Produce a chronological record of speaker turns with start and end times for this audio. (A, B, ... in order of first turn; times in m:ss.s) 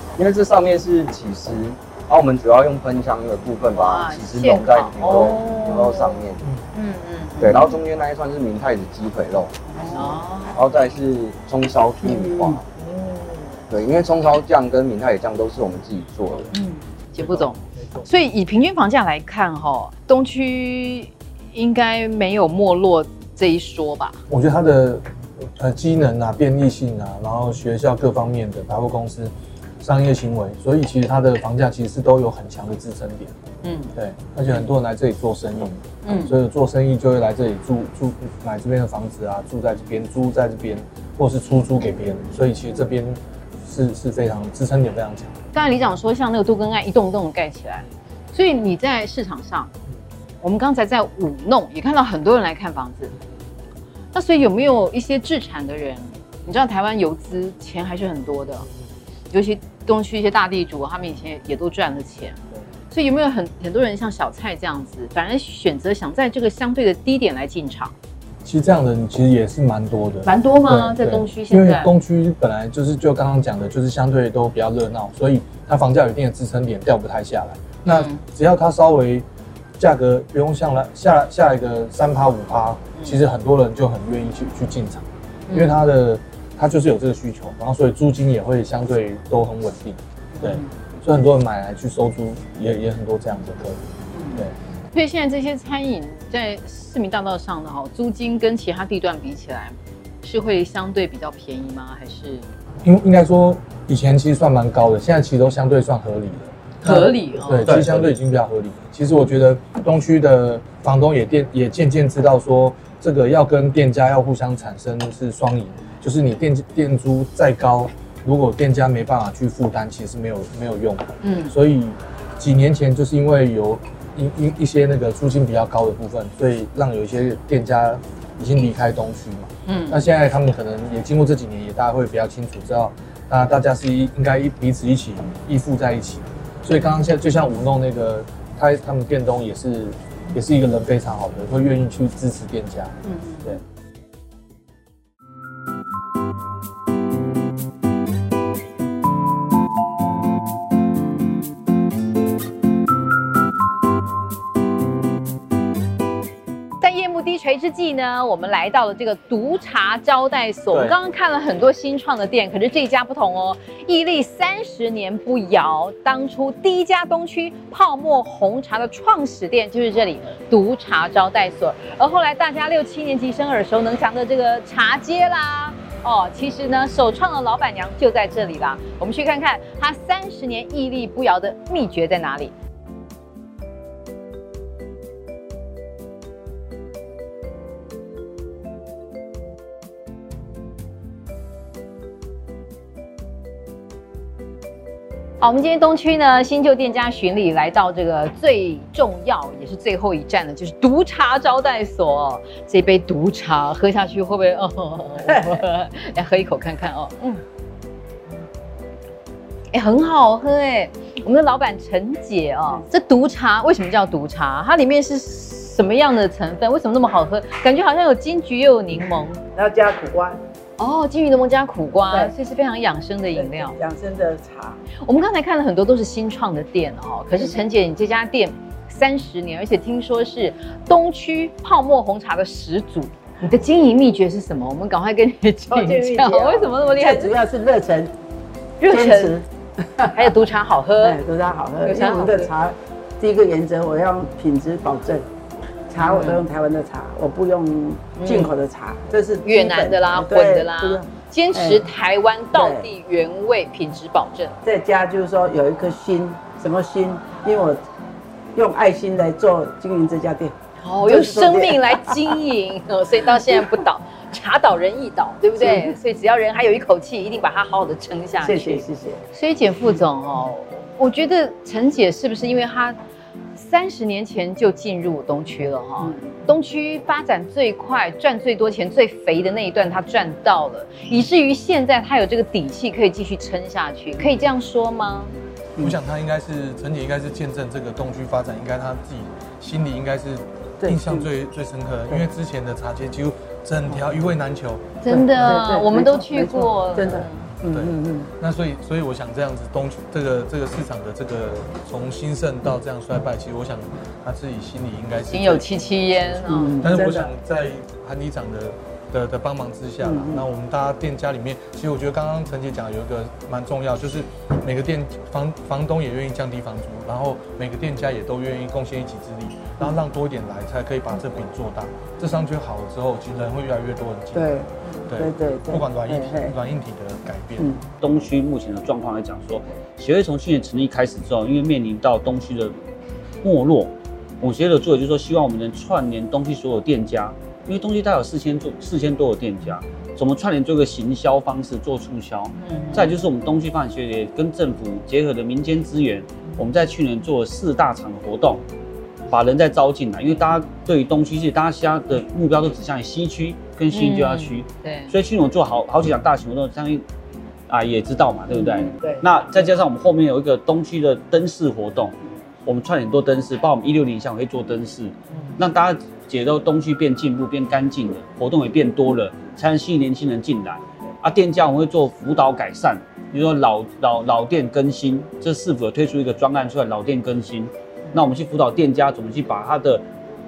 0:00.2-0:06.4 A
0:03.7-0:06.2 B
0:06.7-0:07.7 B
0:07.4-0:12.6 A
0:09.7-0:10.6 B
0:12.0-0:13.6 B
0:13.7-0:16.5 A
0:16.5-0:24.2 B
0:17.2-0:17.5 C
0:24.3-0:33.3 C
0:33.6-0:33.9 B
0:33.9-0:45.4 C
0:36.0-0:36.3 B
0:45.5-0:49.7 B
0:50.4-0:53.1 B
0:54.1-0:58.7 B
0:59.3-1:02.4 B
1:02.9-1:07.9 B
1:08.4-1:19.2 C
1:10.2-1:11.9 B
1:17.8-1:18.2 B
1:19.8-1:34.5 C
1:25.5-1:25.8 B
1:30.3-1:30.7 B
1:34.1-1:42.5 B
1:42.8-2:23.0 C
1:46.8-1:47.8 B
1:47.7-1:48.0 D
2:01.2-2:01.5 B
2:09.6-2:10.0 B
2:23.0-2:23.6 B
2:36.8-3:02.5 B
2:40.7-2:41.0 D
3:15.4-3:27.4 B
3:25.3-3:25.6 E
3:29.7-3:39.4 B
3:39.5-3:40.4 E
3:40.8-3:43.8 B
3:42.1-3:42.3 E
3:43.3-3:44.8 E
3:45.0-3:57.3 B
3:55.7-3:58.1 E
3:58.8-3:59.4 B
3:58.9-3:59.4 E
4:00.0-4:00.3 E
4:00.1-4:01.2 B
4:01.0-4:05.2 E
4:01.8-4:02.5 B
4:05.9-4:11.8 E
4:06.0-4:06.4 B
4:08.2-4:08.5 B
4:09.4-4:14.5 B
4:12.5-4:12.9 E
4:14.6-4:17.8 E
4:18.5-4:22.4 E
4:20.8-4:33.0 B
4:25.6-4:26.0 E
4:28.4-4:29.2 E
4:33.5-4:45.3 B
4:36.0-4:36.4 E
4:45.8-4:55.0 C
4:50.8-4:51.3 E
4:55.0-4:57.5 B
4:55.1-4:58.3 E
4:57.7-5:06.1 C
5:05.3-5:06.9 B
5:06.4-5:07.3 E
5:06.8-5:24.6 C
5:10.0-5:10.4 E
5:24.3-5:26.5 E
5:25.1-5:27.8 C
5:28.0-5:32.8 D
5:33.4-5:48.6 D
5:42.6-5:43.2 B
5:49.3-5:57.0 D
5:53.9-5:55.1 B
5:57.7-6:20.0 D
5:58.6-5:58.9 B
5:59.0-5:59.2 E